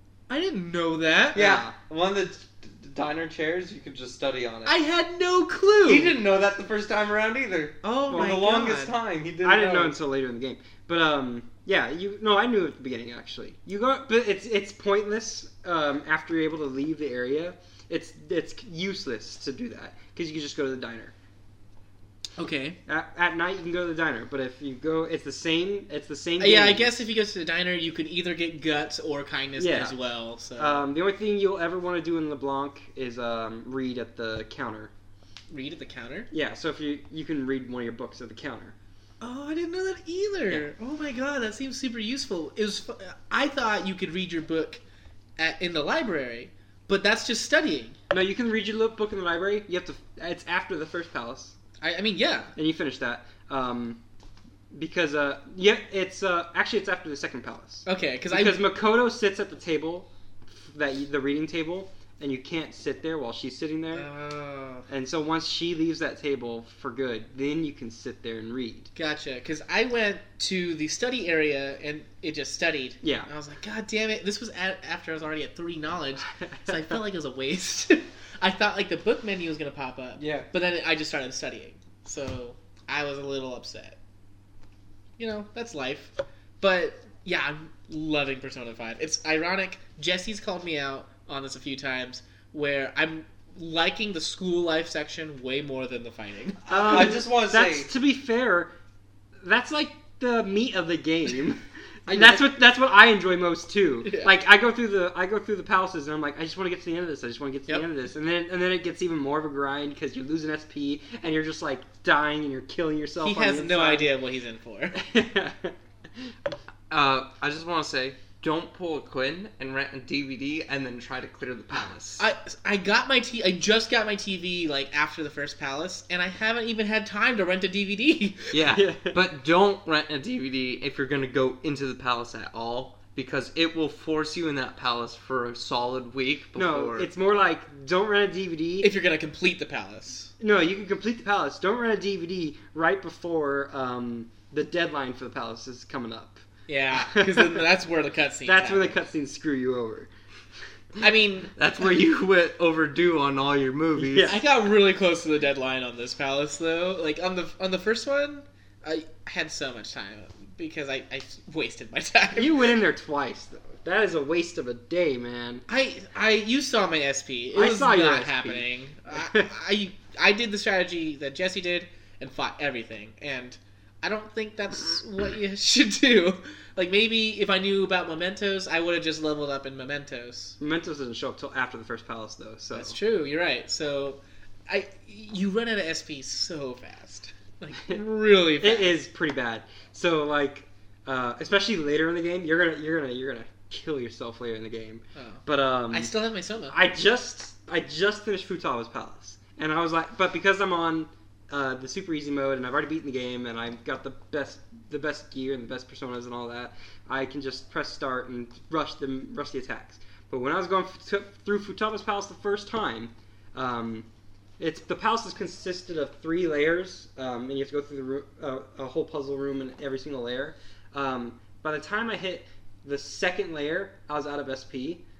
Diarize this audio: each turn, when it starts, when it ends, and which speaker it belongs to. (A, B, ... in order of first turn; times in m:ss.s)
0:00.3-0:01.4 A
0:01.3-0:01.7 B
0:01.3-0:04.8 C
0:04.6-0:06.1 A
0:05.8-0:10.0 C
0:07.8-0:08.9 A
0:09.4-0:21.1 B
0:22.4-0:22.8 A
0:22.9-0:26.9 B
0:26.4-0:30.9 A
0:29.6-0:29.9 B
0:30.6-0:34.9 B
0:35.5-0:36.3 A
0:36.3-0:38.7 B
0:39.2-0:44.8 A
0:45.4-0:48.0 A
0:48.1-0:51.5 B
0:51.8-0:52.5 A
0:52.6-0:54.0 B
0:54.7-1:04.1 B
0:57.8-0:58.6 A
1:03.9-1:04.9 A
1:04.9-1:08.9 B
1:08.9-1:24.0 A
1:13.0-1:13.3 B
1:25.2-1:36.9 A
1:36.7-1:37.9 C
1:36.7-1:38.7 B
1:39.4-1:54.1 B
1:42.1-1:42.4 C
1:44.0-1:44.3 A
1:53.2-1:55.0 A
1:54.9-1:55.8 B
1:56.9-2:02.2 C
2:02.2-2:08.5 A
2:08.5-2:17.1 C
2:08.7-2:09.2 B
2:16.6-2:18.9 B
2:18.8-2:20.3 A
2:20.4-2:26.4 B
2:26.7-2:29.0 A
2:26.9-2:27.6 B
2:28.4-2:30.1 B
2:31.0-2:31.5 A
2:31.6-2:34.4 C
2:34.0-2:34.4 B
2:34.2-2:42.7 A
2:42.3-2:45.6 B
2:45.7-3:00.6 A
2:47.5-2:49.5 B
3:00.6-3:03.0 B
3:02.7-3:09.0 A
3:08.6-3:16.1 B
3:15.1-3:16.8 A
3:16.7-3:34.1 B
3:34.6-3:45.0 B